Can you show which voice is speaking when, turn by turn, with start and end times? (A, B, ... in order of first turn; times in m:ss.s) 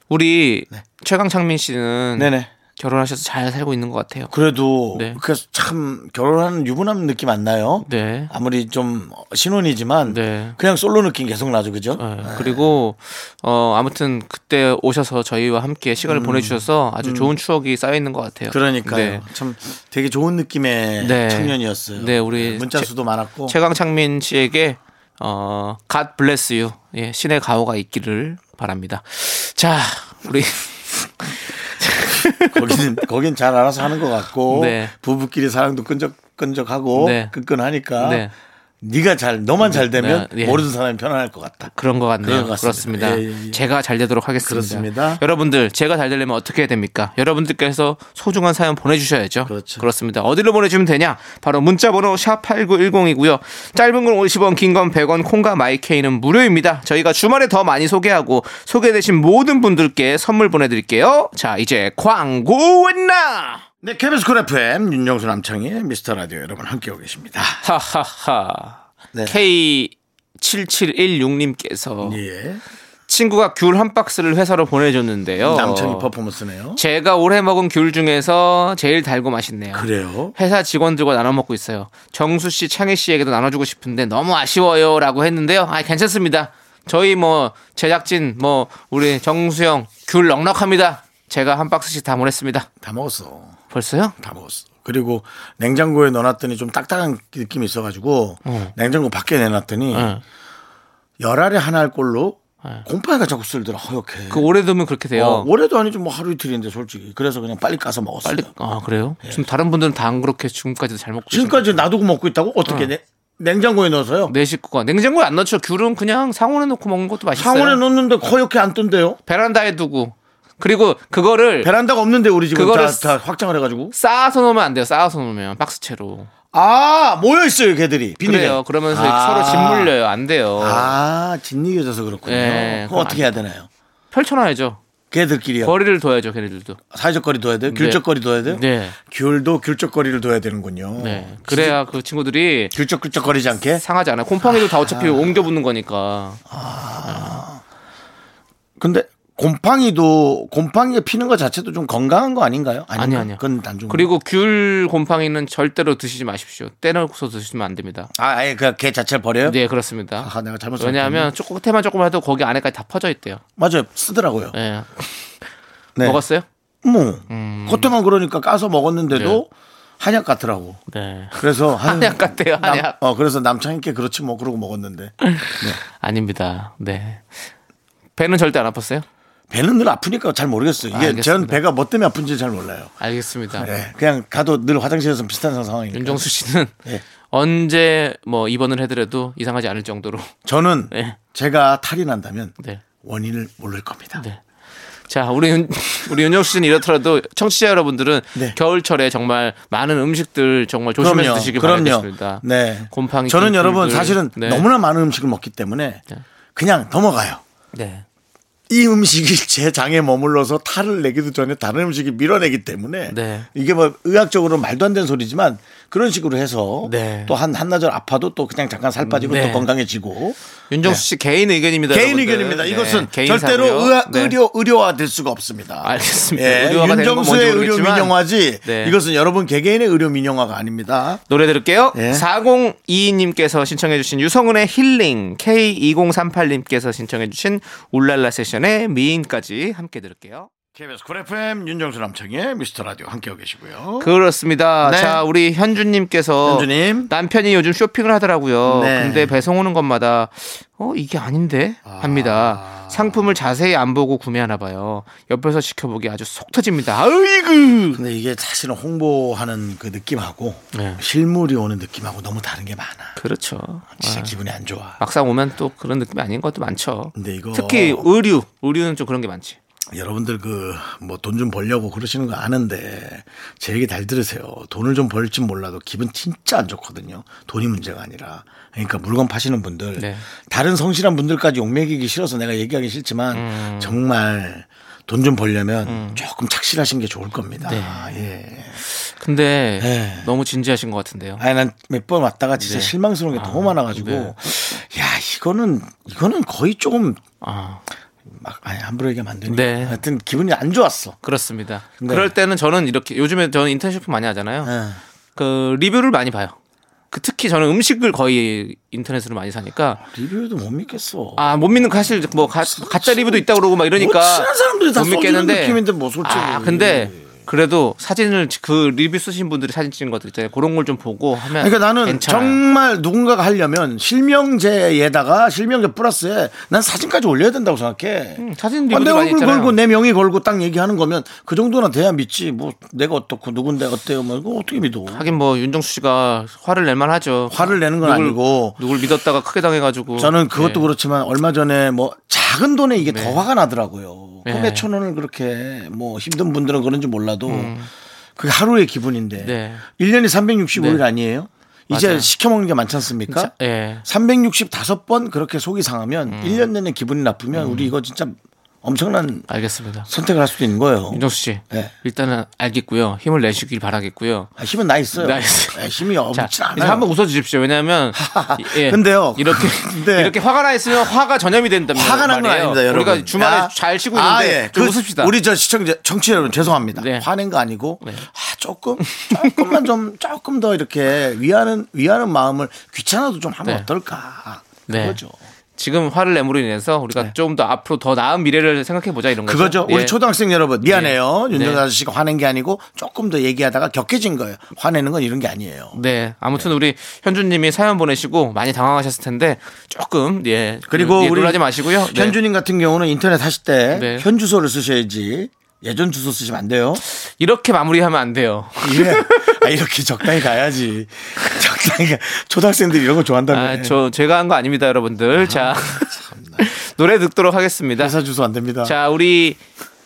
0:00.1-0:04.3 A
0:02.2-0:02.5 B
0:04.3-0:12.6 B
0:04.9-0:05.2 A
0:07.8-0:08.3 A
0:10.1-0:10.6 A
0:12.0-0:19.2 A
0:16.1-0:17.3 B
0:18.5-0:23.5 B
0:21.0-0:22.9 A
0:23.5-0:33.0 A
0:32.4-0:38.2 B
0:34.5-0:34.9 A
0:37.0-0:37.3 A
0:38.0-0:38.3 A
0:38.8-0:41.7 B
0:39.6-0:40.6 A
0:41.7-1:03.6 A
0:42.2-0:43.6 B
0:44.4-0:45.2 B
0:49.4-0:49.9 B
1:03.8-1:07.6 B
1:07.6-1:12.2 A
1:09.1-1:09.4 B
1:12.0-1:12.6 B
1:13.1-1:16.1 A
1:15.4-1:16.8 B
1:16.8-1:32.7 A
1:19.7-1:20.3 B
1:32.8-1:33.6 B
1:33.7-1:34.1 A
1:34.2-1:40.2 B
1:38.4-1:38.7 A
1:39.9-1:40.2 A
1:41.2-1:44.5 B
1:44.3-1:45.5 A
1:45.1-1:48.5 B
1:48.2-1:51.9 A
1:51.3-1:54.3 B
1:52.6-1:52.9 A
1:54.3-1:57.8 A
1:57.4-1:59.2 B
1:59.3-2:01.7 A
2:01.6-2:03.9 B
2:02.5-2:03.1 A
2:03.9-2:06.3 A
2:06.5-2:09.9 B
2:08.2-2:11.0 A
2:10.6-2:13.7 B
2:12.2-2:13.4 A
2:14.1-2:14.8 A
2:15.1-2:15.8 B
2:15.6-2:16.8 A
2:16.9-2:21.8 B
2:17.7-2:19.0 A
2:21.0-2:22.7 A
2:22.7-2:23.8 B
2:23.8-2:26.4 A
2:24.4-2:25.4 B
2:26.5-2:27.6 B
2:27.1-2:27.4 A
2:28.8-2:34.1 B
2:33.0-2:38.1 A
2:38.2-2:39.6 B
2:39.4-2:43.4 A
2:40.2-2:41.3 B
2:43.6-2:44.5 B
2:44.5-2:45.2 A
2:46.0-2:46.2 B
2:46.0-2:46.4 A
2:46.8-2:49.5 B
2:47.3-2:47.9 A
2:49.1-2:49.4 A
2:50.0-2:50.8 B
2:50.9-2:52.9 A
2:51.4-2:55.8 B
2:55.2-2:57.5 A
2:58.2-2:59.0 A
2:59.5-3:02.9 B
3:00.9-3:01.6 A
3:03.0-3:03.7 A
3:03.5-3:06.3 B
3:05.9-3:06.7 A
3:07.3-3:10.3 A
3:10.4-3:14.2 B
3:10.9-3:11.2 A
3:15.1-3:24.6 A
3:21.0-3:26.0 B
3:26.5-3:27.4 B
3:27.7-3:28.0 A
3:28.7-3:41.0 B
3:33.1-3:33.5 A
3:36.8-3:37.4 A
3:39.0-3:39.7 A
3:40.7-3:44.4 A
3:41.9-3:51.2 B
3:45.8-3:48.1 A
3:48.6-3:49.0 A
3:51.3-4:00.5 A
3:51.9-3:52.2 B
4:00.7-4:04.1 B
4:04.0-4:18.0 A
4:04.8-4:05.2 B
4:06.4-4:07.1 B
4:08.6-4:09.3 B
4:11.8-4:13.3 B
4:17.9-4:23.2 B
4:20.7-4:21.0 A
4:23.2-4:24.3 A
4:24.0-4:25.0 B
4:25.0-4:29.6 A
4:27.2-4:28.1 B
4:29.9-4:48.8 B
4:40.0-4:40.3 A
4:43.3-4:44.0 A
4:45.8-4:46.2 A
4:47.6-4:48.3 A
4:48.8-4:51.4 A
4:49.8-4:50.3 B
4:51.4-4:57.2 B
4:52.6-4:54.3 A
4:57.4-4:57.8 A
4:58.3-5:01.2 B
4:59.5-5:00.0 A
5:01.2-5:04.7 A
5:02.0-5:02.3 B
5:04.6-5:05.0 B
5:05.4-5:06.5 A
5:07.1-5:10.0 A
5:10.0-5:11.7 B
5:11.4-5:22.6 A
5:12.6-5:17.3 B
5:21.6-5:35.3 B
5:28.4-5:29.8 A
5:35.1-5:40.9 A
5:37.5-5:38.8 B
5:40.2-5:47.7 B
5:43.0-5:43.4 A
5:44.4-5:44.9 A
5:47.4-5:47.9 A
5:48.4-5:53.5 B
5:49.4-5:49.8 A
5:50.8-5:51.0 A
5:51.9-5:52.3 A
5:53.3-5:54.0 A
5:54.0-5:59.5 B
5:56.3-5:56.7 A
5:57.5-5:57.9 A
5:59.5-6:00.1 A
6:00.1-6:01.9 B
6:01.1-6:04.5 A
6:04.6-6:07.1 B
6:05.1-6:15.3 A
6:08.1-6:10.4 B
6:11.9-6:25.4 B
6:16.9-6:17.3 A
6:19.1-6:19.8 A
6:24.9-6:25.2 A
6:25.8-6:30.1 A
6:29.4-6:36.0 B
6:30.8-6:31.8 A
6:35.9-6:42.4 A
6:40.9-6:47.0 B
6:43.9-6:44.2 A
6:47.1-6:49.7 A
6:48.8-6:54.0 B
6:53.5-6:58.2 A
6:55.3-6:56.7 B
6:58.0-6:58.9 B
6:58.8-6:59.6 A